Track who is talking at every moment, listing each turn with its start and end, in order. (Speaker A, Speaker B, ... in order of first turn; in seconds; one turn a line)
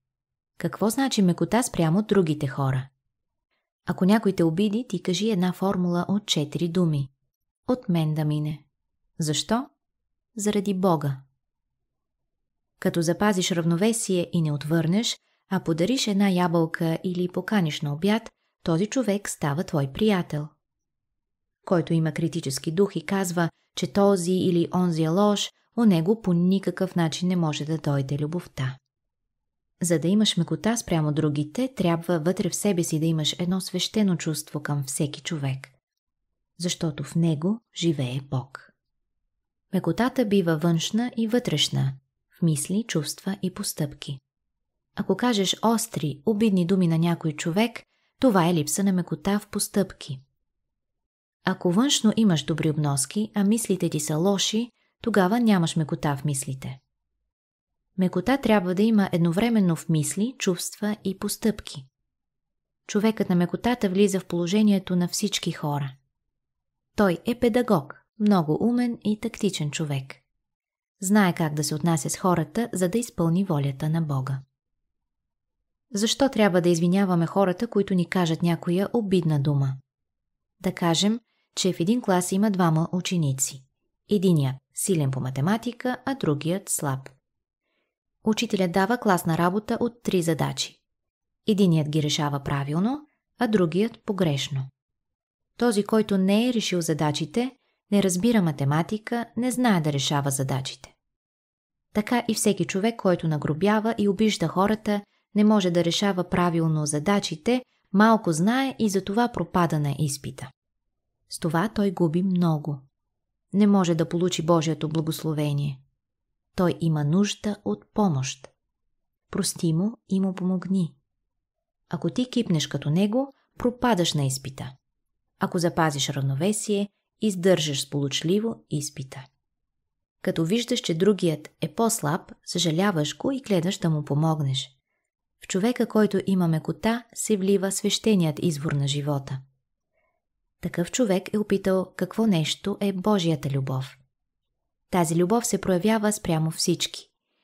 Speaker A: 0.6-2.9
Speaker A: 3.9-7.1
Speaker A: 7.7-8.6
Speaker A: 9.2-9.7
Speaker A: 10.3-11.2
Speaker A: 12.8-20.5
Speaker A: 21.6-28.8
Speaker A: 29.8-35.7
Speaker A: 36.6-38.7
Speaker A: 39.7-44.2
Speaker A: 45.0-50.2
Speaker A: 51.5-56.8
Speaker A: 58.0-61.9
Speaker A: 62.9-65.9
Speaker A: 67.0-70.2
Speaker A: 71.0-74.4
Speaker A: 75.9-79.8
Speaker A: 80.6-87.1
Speaker A: 88.2-90.8
Speaker A: 91.4-94.7
Speaker A: 95.6-100.9
Speaker A: 101.9-110.5
Speaker A: 111.3-112.8
Speaker A: 113.5-115.8
Speaker A: 116.5-118.5
Speaker A: 119.3-121.0
Speaker A: 121.9-124.7
Speaker A: 125.4-129.3
Speaker A: 130.2-134.7
Speaker A: 135.4-139.4
Speaker A: 140.6-144.0
Speaker A: 144.9-147.1